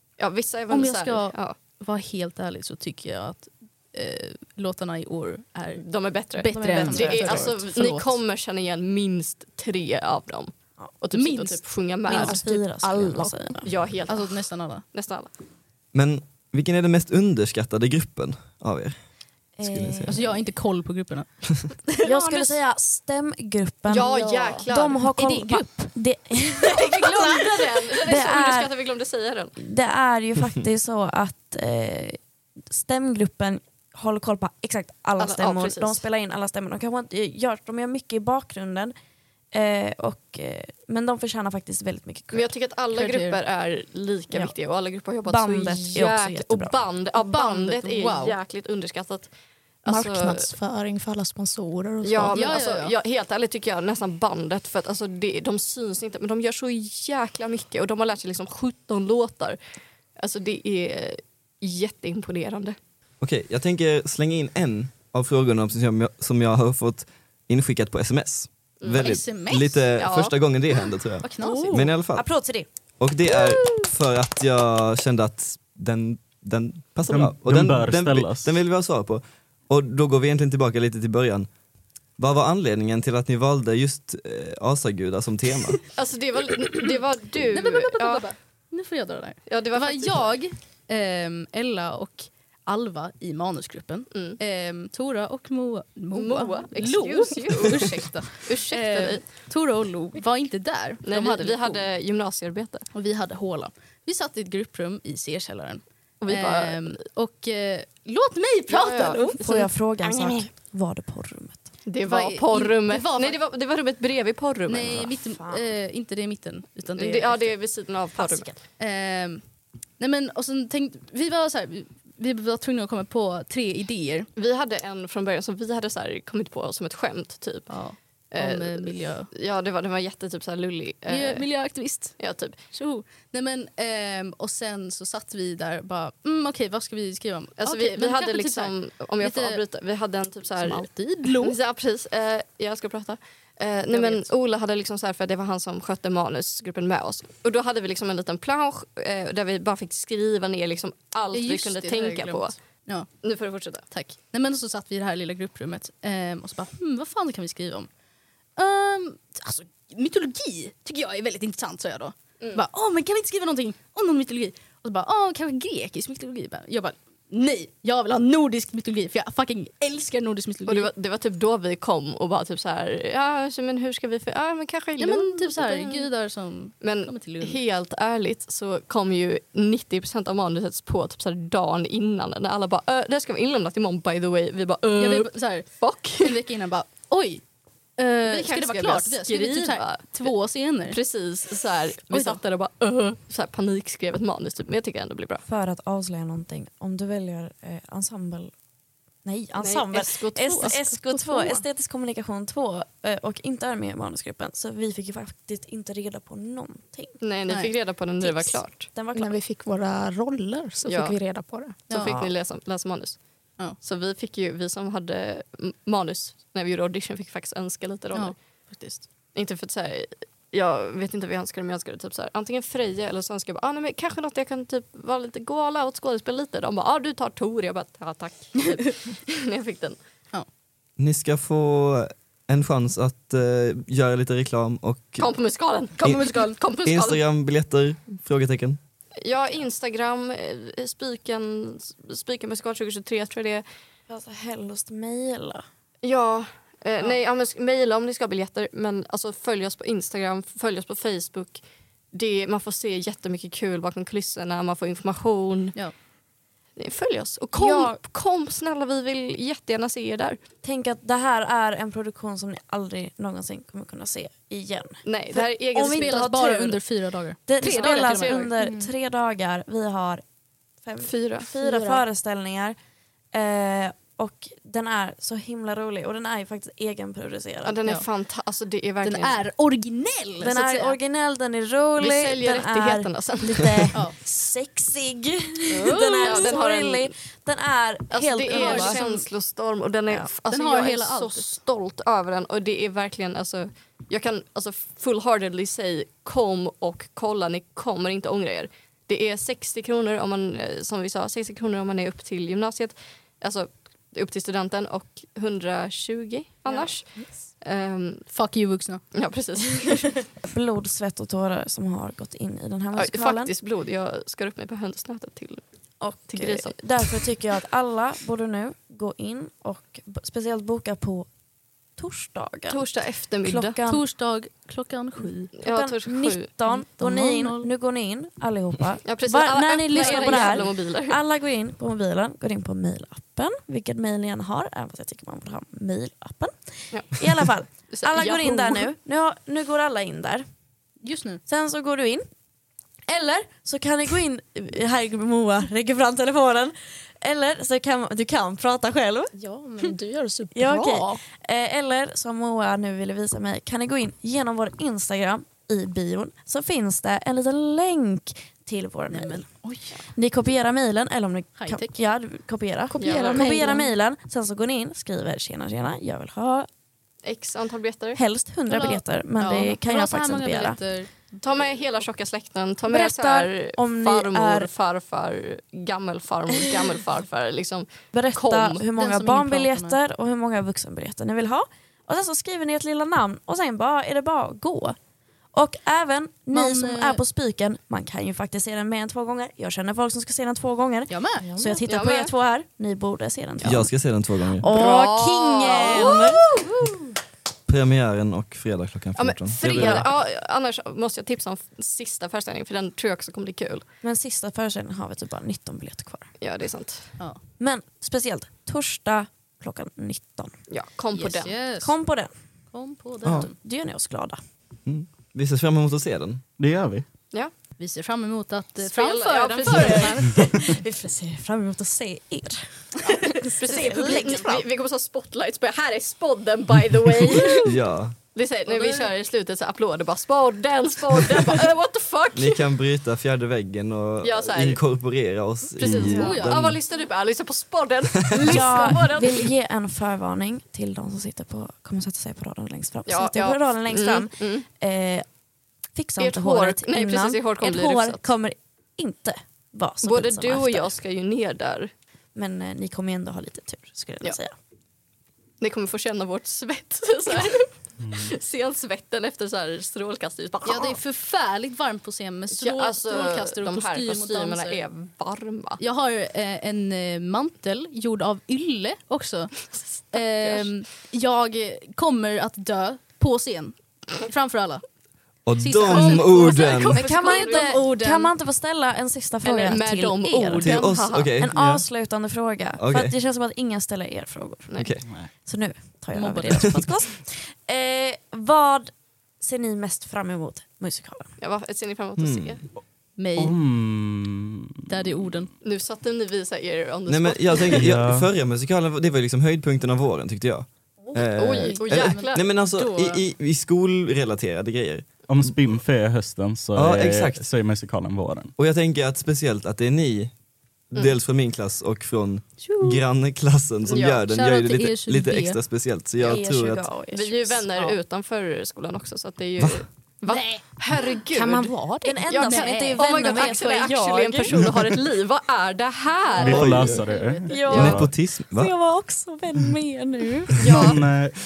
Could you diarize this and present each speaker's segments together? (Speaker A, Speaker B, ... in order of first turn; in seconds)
Speaker A: 0.2-1.6, 5.8-15.3, 22.1-22.6, 23.9-25.1, 26.7-29.6, 35.2-36.0, 42.3-49.3, 49.8-50.5, 52.0-59.6, 60.2-62.8, 68.8-69.1, 70.0-70.4, 85.9-88.3, 89.5-90.3, 94.1-94.4, 96.1-99.2, 101.0-102.9, 106.2-107.0, 108.7-110.5, 111.9-115.1, 117.0-118.6, 124.4-127.7, 128.3-131.5, 132.2-132.6, 137.6-152.6, 153.2-153.9, 170.7-176.1, 176.8-186.4, 188.2-190.3, 190.9-195.4, 199.6-201.6, 207.2-208.9, 210.9-211.2, 211.9-213.2, 213.8-218.4, 219.3-230.0, 235.2-237.2, 239.2-243.6, 246.0-255.8, 256.8-260.4, 265.0-266.3, 267.6-268.5, 271.0-271.5, 277.6-279.4, 282.0-283.9, 286.2-287.1, 288.1-308.2, 309.1-310.2, 312.9-315.6, 316.3-317.2, 322.7-323.8, 325.6-326.5, 329.1-331.2, 337.9-338.9, 363.0-363.8, 367.2-368.2, 371.4-378.8, 391.6-392.3, 394.7-397.1, 399.2-403.9, 406.4-407.2, 410.7-411.5, 418.8-420.3, 423.1-427.8, 428.3-432.7, 434.2-434.8, 435.8-439.5, 443.1-444.7, 446.2-448.2, 450.0-451.9, 455.6-461.0, 462.6-465.8, 469.7-470.7, 475.8-478.3, 479.4-481.4, 491.4-492.6, 495.6-497.8, 501.4-502.5, 513.9-514.2, 516.2-527.0, 527.7-528.0, 530.6-531.0
Speaker B: 0.7-8.2, 11.1-12.6, 14.1-14.8, 20.1-22.1, 25.1-25.7, 43.0-43.4, 47.2-48.4, 52.3-53.0, 68.9-69.9, 71.2-71.8, 87.5-101.8, 102.9-109.5, 112.0-113.4, 114.7-117.6, 118.8-119.4, 120.0-124.3, 127.7-129.3, 131.1-132.2, 132.7-139.6, 140.6-141.6, 143.9-144.3, 151.3-153.1, 153.9-157.9, 158.6-170.9, 175.0-177.6, 185.0-187.4, 188.0-191.0, 218.1-219.1, 236.0-236.6, 265.8-268.5, 279.0-281.0, 285.7-286.6, 288.5-289.1, 290.5-291.6, 308.3-309.0, 323.9-325.5, 327.0-327.7, 329.9-330.7, 341.0-341.4, 359.1-360.0, 361.6-362.0, 363.0-363.9, 368.7-371.1, 378.9-380.0, 386.5-387.2, 391.1-391.5, 395.8-396.2, 411.2-412.0, 412.7-413.6, 417.8-420.4, 428.7-429.1, 435.8-436.6, 460.6-464.8, 465.8-474.8, 475.6-477.8, 486.1-486.9, 493.2-493.6, 494.9-495.5, 501.7-503.2, 512.6-513.0, 514.2-515.6, 520.3-520.6, 522.6-523.0, 526.3-527.7
Speaker C: 6.5-7.5, 12.1-13.7, 19.6-20.3, 22.0-28.7, 29.6-38.9, 39.5-42.5, 45.2-46.8, 71.4-72.7, 109.3-111.6, 114.9-115.7, 118.2-118.5, 195.5-198.5, 199.2-207.2, 208.2-209.4, 212.0-212.3, 244.1-245.7, 257.5-257.9, 260.6-266.8, 267.5-270.2, 270.8-272.8, 273.3-277.8, 280.4-289.2, 310.4-313.5, 316.0-321.3, 322.0-322.9, 323.4-324.0, 325.6-336.5, 337.1-340.5, 341.5-342.2, 343.1-349.3, 350.5-359.5, 360.1-366.7, 368.2-370.8, 372.9-374.7, 378.1-385.0, 385.5-393.9, 394.6-396.4, 404.0-406.3, 407.6-410.6, 411.2-412.3, 413.3-414.4, 419.7-424.7, 435.9-436.4, 438.4-445.3, 445.9-451.0, 452.4-454.5, 476.9-480.9, 481.4-484.7, 485.4-491.3, 516.2-518.0, 522.0-524.5, 527.5-530.6
Speaker D: 15.9-19.0, 19.6-20.3, 63.2-72.3, 73.0-81.5, 82.2-85.8, 231.0-235.3, 236.0-238.8, 393.6-394.7, 397.7-400.1, 414.9-416.4, 427.6-428.1, 432.4-436.8, 475.5-477.1, 480.6-481.8, 482.8-483.1, 484.8-485.1, 492.2-492.6, 497.1-505.6, 506.8-507.5, 508.6-510.3, 510.9-516.9, 519.6-519.9, 526.5-527.0, 527.7-528.7, 530.6-531.0
Speaker E: 49.9-52.5, 209.2-211.8, 271.6-272.0, 349.4-351.2, 521.3-522.2
Speaker F: 77.1-78.6, 416.6-417.1, 458.0-458.3, 493.4-495.1, 497.7-498.3, 505.2-508.5, 526.4-528.1, 530.7-531.4